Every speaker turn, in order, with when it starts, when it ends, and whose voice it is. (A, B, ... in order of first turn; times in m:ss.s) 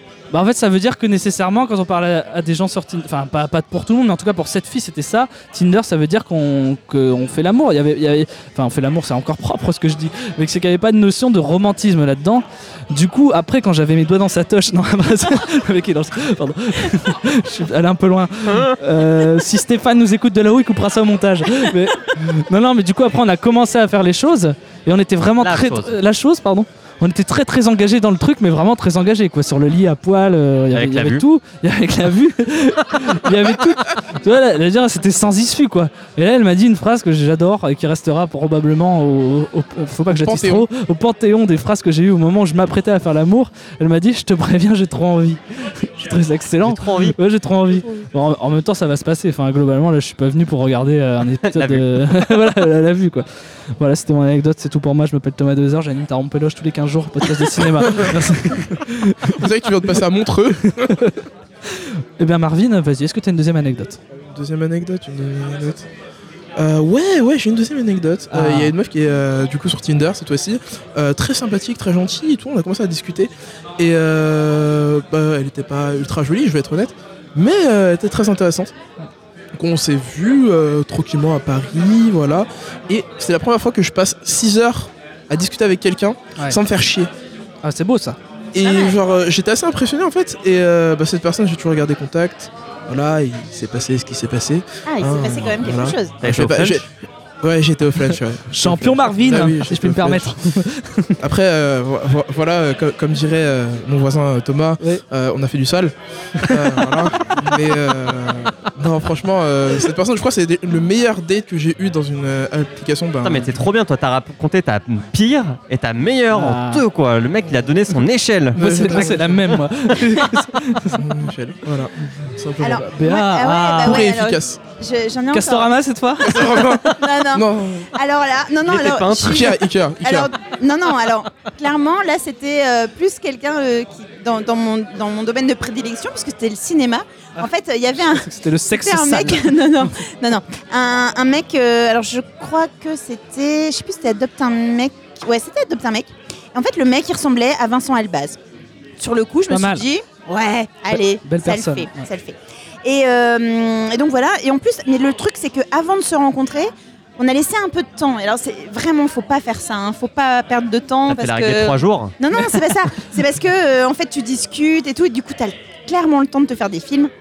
0:00.3-0:53.2 A
0:18.5-0:18.8 B
0:25.4-0:25.9 B
0:30.7-0:31.2 B
0:40.1-0:40.7 C
0:46.6-0:47.2 B
0:51.4-0:51.9 B
0:53.8-0:59.4 A
0:59.3-1:01.1 C
1:00.9-1:01.1 A
1:01.8-1:04.0 A
1:04.3-1:05.9 C
1:06.6-1:18.7 C
1:08.3-1:08.7 A
1:19.6-1:27.1 C
1:27.6-1:28.2 A
1:28.5-1:36.9 C
1:28.6-1:29.0 D
1:34.9-1:36.2 D
1:36.2-1:36.8 B
1:37.4-1:40.4 C
1:38.5-1:41.2 A
1:41.2-1:53.5 C
1:46.4-1:46.9 A
1:53.2-1:59.0 B
1:56.3-1:56.8 A
1:58.5-1:59.6 C
1:58.6-2:01.0 A
2:00.9-2:02.9 C
2:02.6-2:05.7 D
2:02.9-2:04.0 A
2:03.7-2:04.6 C
2:05.3-2:06.7 A
2:06.2-2:07.9 C
2:06.3-2:28.4 D
2:08.6-2:09.6 B
2:09.2-2:10.3 C
2:18.0-2:19.9 A
2:29.0-2:47.1 D
2:29.5-2:29.9 A
2:30.9-2:32.0 A
2:41.1-2:42.1 B